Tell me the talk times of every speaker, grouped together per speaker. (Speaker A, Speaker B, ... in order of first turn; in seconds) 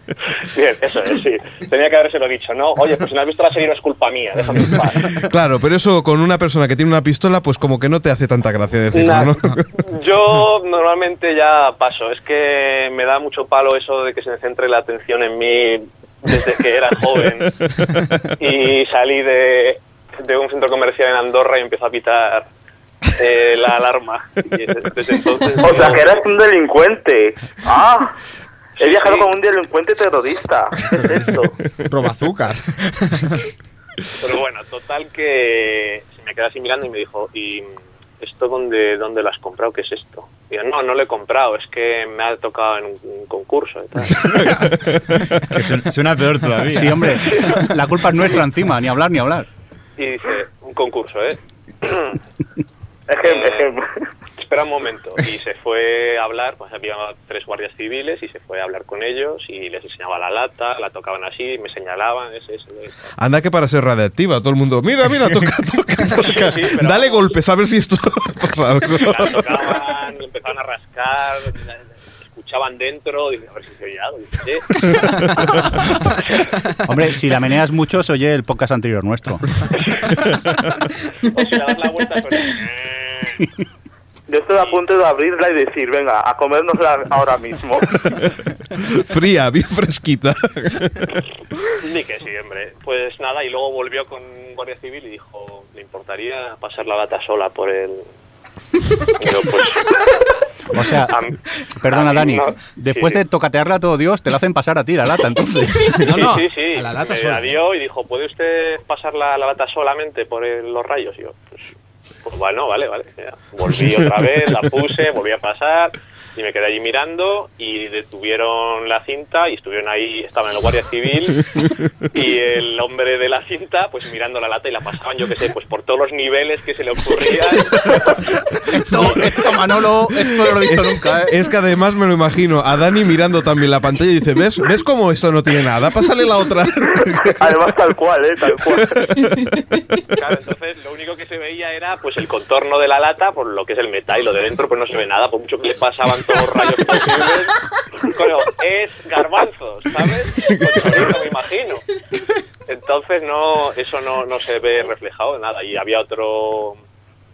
Speaker A: 0.5-5.2, 8.9-17.5, 18.4-22.5, 23.2-26.2, 28.8-29.3, 34.2-44.4, 50.0-52.1, 53.2-53.7, 54.4-63.1, 66.1-67.4, 69.0-71.8, 72.3-75.0, 76.2-76.5, 79.8-80.1, 81.2-83.5, 84.5-84.8, 91.8-98.1, 99.0-100.1, 101.1-101.4, 101.9-103.2, 106.0-111.6, 112.2-121.5, 122.1-128.2, 140.1-151.8, 152.7-156.8
Speaker B: 4.6-9.7, 17.7-18.1, 44.2-45.2, 63.2-69.8, 74.8-75.7, 88.8-91.1, 128.9-129.3, 130.2-137.5, 138.7-139.3, 150.5-151.1
Speaker C: 25.6-28.1, 28.8-31.5, 53.1-53.9, 84.3-88.2, 137.3-139.0
Speaker D: 31.9-33.5, 106.0-107.6
Speaker E: 44.2-44.7, 45.4-47.5
Speaker F: 46.7-49.5, 76.8-79.6, 100.7-101.2, 101.8-106.2, 128.7-131.4